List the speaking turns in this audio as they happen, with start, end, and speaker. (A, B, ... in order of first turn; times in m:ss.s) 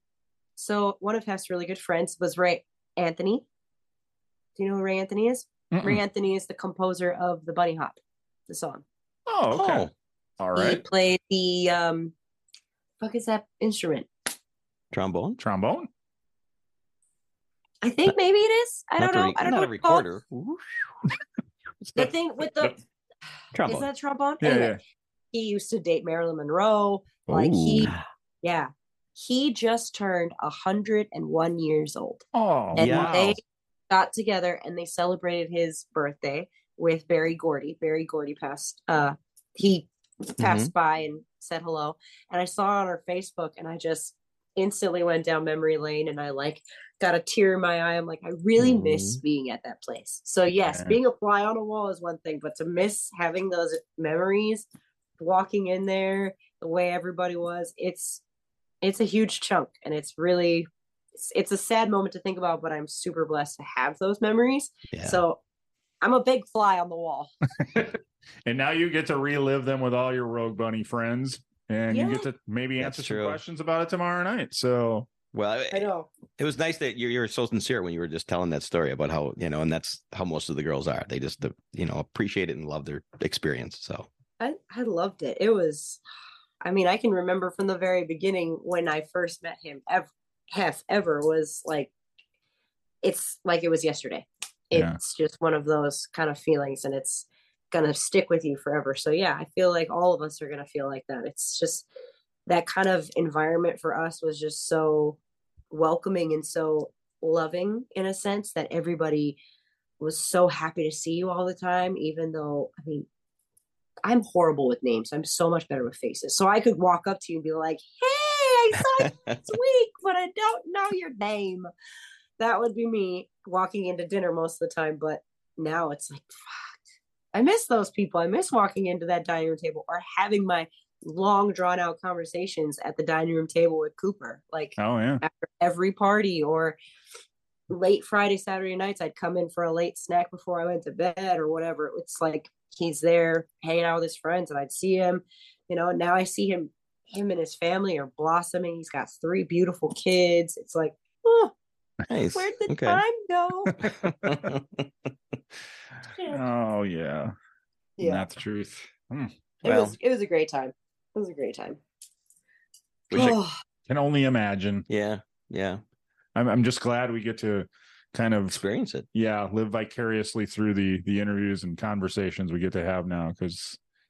0:00.6-0:03.4 A
0:04.6-0:08.0 A
0:05.7-0:06.0 B
0:08.5-0:08.8 A
0:09.3-0:10.8 B
0:09.5-0:09.9 C
0:10.6-0:12.1 A
0:13.0-0:14.1 A
0:14.9-0:15.4 C
0:15.4-0:15.9 B
0:17.8-0:20.1 A
0:19.0-0:20.7 C
0:22.0-0:22.8 A
0:22.0-0:22.7 B
0:23.5-0:23.9 C
0:23.7-0:24.8 A
0:24.4-0:24.8 B
0:25.3-0:27.9 A
0:27.3-0:27.9 B
0:27.7-0:28.0 C
0:28.4-0:54.7 A
0:32.3-0:33.4 B
0:32.8-0:33.2 C
0:40.4-0:40.7 C
0:48.6-0:49.2 C
0:50.7-0:51.0 B
0:55.2-0:58.2 A
0:58.8-1:05.4 A
1:04.9-1:05.2 C
1:06.0-1:07.3 A
1:07.6-1:15.1 B
1:11.9-1:12.3 A
1:12.8-1:13.4 C
1:15.3-1:24.1 C
1:15.7-1:16.1 A
1:24.4-1:26.0 A
1:26.6-1:31.9 A
1:33.0-1:41.9 A
1:42.5-1:45.2 A
1:45.7-1:49.4 A
1:50.0-1:53.1 A
1:54.0-2:01.7 A
1:59.0-1:59.4 C
2:02.4-2:06.8 A
2:07.3-2:16.8 A
2:14.8-2:15.2 B
2:17.7-2:31.5 A
2:32.1-2:33.0 C
2:32.3-2:33.8 A
2:33.8-2:34.5 B
2:34.0-2:34.9 C
2:36.2-2:36.4 A
2:36.3-2:37.3 B
2:38.0-2:38.2 A
2:38.0-2:39.3 B
2:39.6-2:41.8 A
2:39.6-2:40.0 C
2:43.1-2:43.4 C
2:43.1-2:43.5 A
2:43.9-2:44.9 B
2:44.9-2:45.8 C
2:46.4-2:48.6 B
2:48.5-2:49.1 C
2:49.1-2:53.8 B